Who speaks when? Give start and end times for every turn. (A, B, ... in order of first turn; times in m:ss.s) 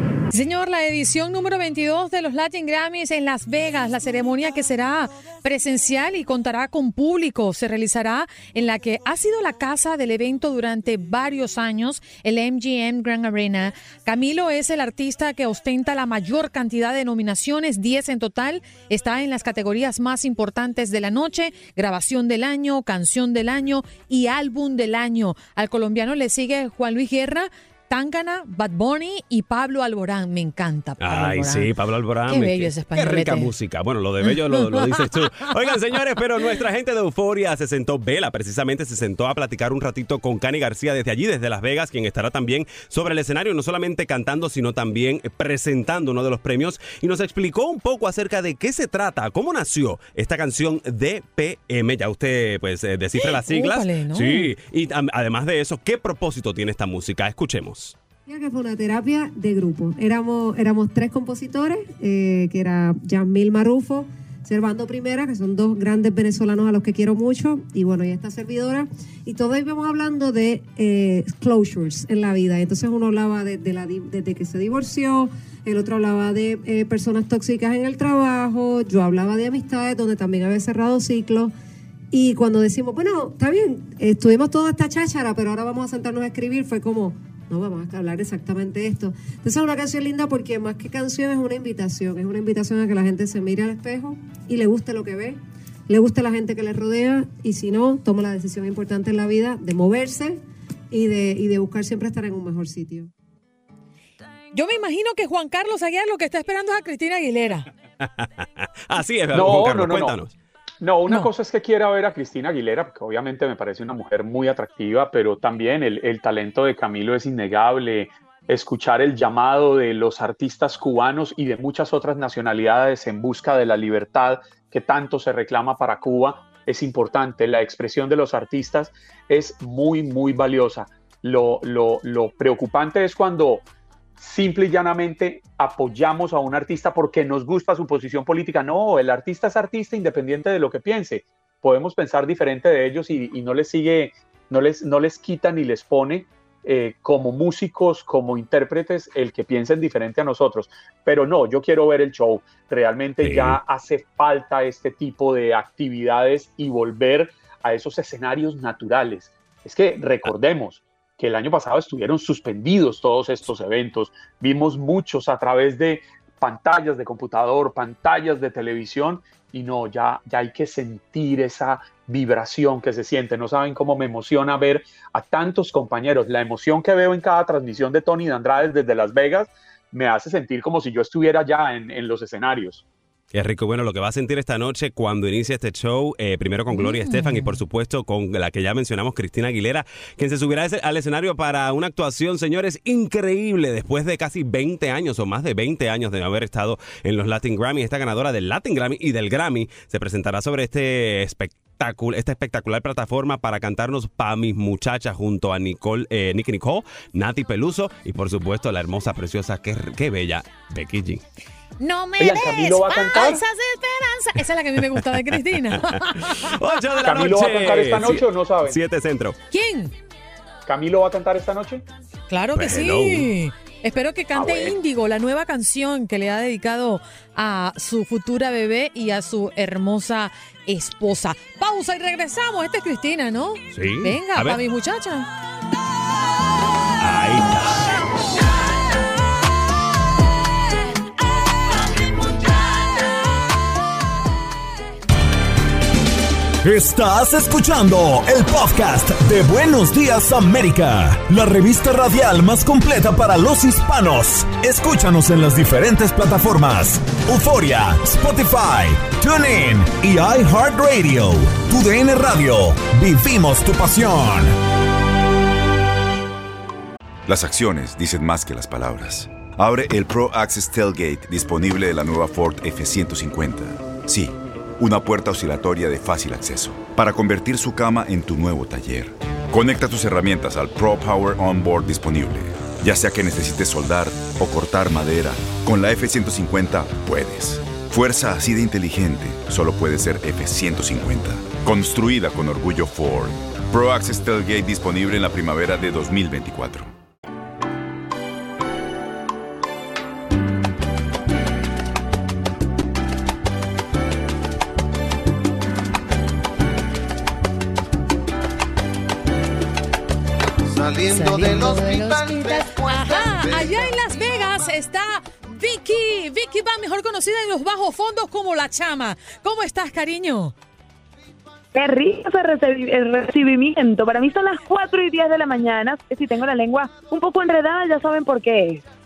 0:00.3-0:31.7 A
0:31.0-0:57.9 B
0:32.3-0:33.5 A
0:34.7-0:35.0 A
0:53.1-0:54.5 A
0:58.2-1:21.5 C
1:22.1-1:40.4 C
1:40.9-1:43.1 C
1:44.5-1:47.7 A
1:48.9-1:50.3 B
1:49.3-1:50.2 D
1:50.8-2:13.6 D
2:14.2-3:02.8 D
2:33.2-2:33.6 B
3:03.3-3:31.2 B
3:06.7-3:07.6 A
3:31.8-3:36.5 A
3:32.2-3:33.4 D
3:35.7-3:39.4 B
3:37.0-3:38.8 D
3:39.5-3:39.9 A
3:40.6-3:41.8 D
3:42.3-3:55.3 A
3:42.5-3:43.3 B
3:44.3-3:44.7 D
3:53.7-3:54.6 B
3:57.0-3:57.8 B
4:06.6-4:24.5 E
4:27.3-4:56.9 F
5:11.0-5:20.5 A
5:21.7-5:28.8 G